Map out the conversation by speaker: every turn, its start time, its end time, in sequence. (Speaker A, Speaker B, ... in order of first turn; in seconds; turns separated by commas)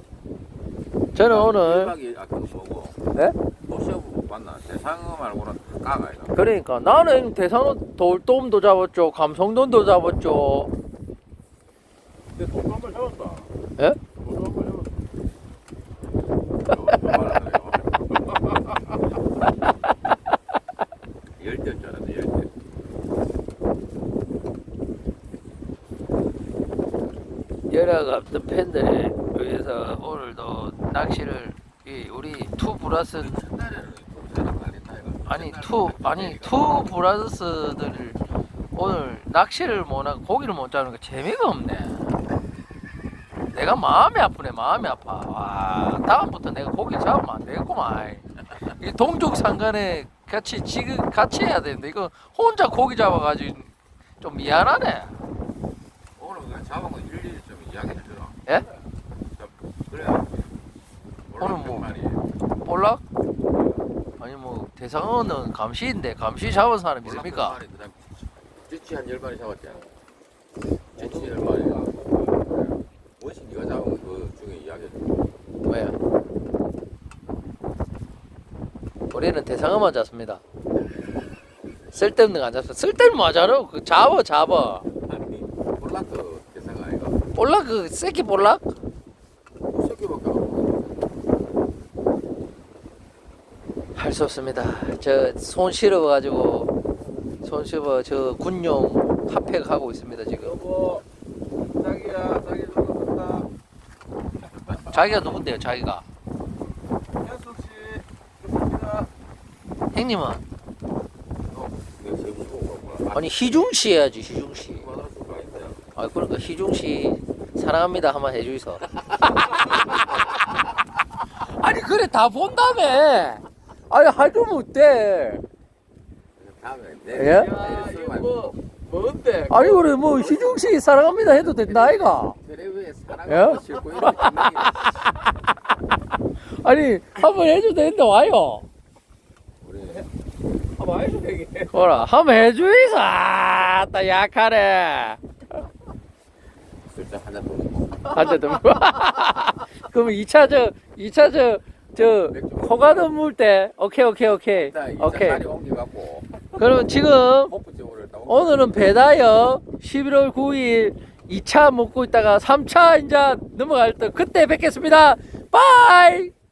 Speaker A: 1.1-1.9, Speaker B: 1.2-3.0, Speaker B: 3.7-6.4, Speaker A: 6.3-10.7, Speaker C: 12.3-13.5, Speaker C: 14.2-14.9, Speaker B: 16.6-17.9, Speaker B: 21.4-22.5, Speaker A: 27.7-33.4, Speaker B: 33.2-36.9, Speaker A: 35.3-38.2, Speaker A: 38.8-42.1, Speaker A: 43.5-55.1, Speaker B: 56.2-58.4, Speaker B: 59.3-60.5, Speaker B: 61.3-62.3, Speaker A: 61.4-62.0, Speaker A: 62.6-63.0, Speaker C: 63.5-63.9, Speaker A: 64.2-67.6, Speaker B: 67.0-69.9, Speaker C: 70.9-72.4, Speaker B: 71.0-75.3, Speaker A: 75.6-76.0, Speaker A: 79.1-80.4, Speaker A: 81.9-84.9, Speaker B: 85.0-87.2, Speaker A: 87.3-88.8, Speaker B: 89.7-91.0, Speaker A: 94.0-96.7, Speaker A: 97.4-100.6, Speaker C: 100.4-101.0, Speaker C: 101.7-103.5, Speaker B: 104.6-105.2, Speaker A: 104.9-106.0, Speaker C: 107.2-109.1, Speaker A: 109.9-110.4, Speaker B: 111.5-113.5, Speaker A: 113.1-114.9, Speaker B: 114.7-115.8, Speaker A: 116.0-120.2, Speaker A: 121.3-125.4, Speaker B: 126.4-128.5, Speaker A: 127.1-127.6, Speaker C: 127.3-130.7, Speaker A: 129.5-132.4, Speaker B: 131.3-135.0, Speaker A: 133.3-135.2, Speaker A: 136.5-138.7, Speaker B: 139.6-140.1, Speaker C: 140.8-142.0, Speaker A: 141.7-145.2, Speaker B: 146.8-148.2, Speaker A: 148.1-155.4, Speaker B: 152.3-153.2, Speaker B: 154.5-156.6, Speaker A: 156.6-157.5, Speaker B: 157.4-159.1, Speaker A: 158.3-166.3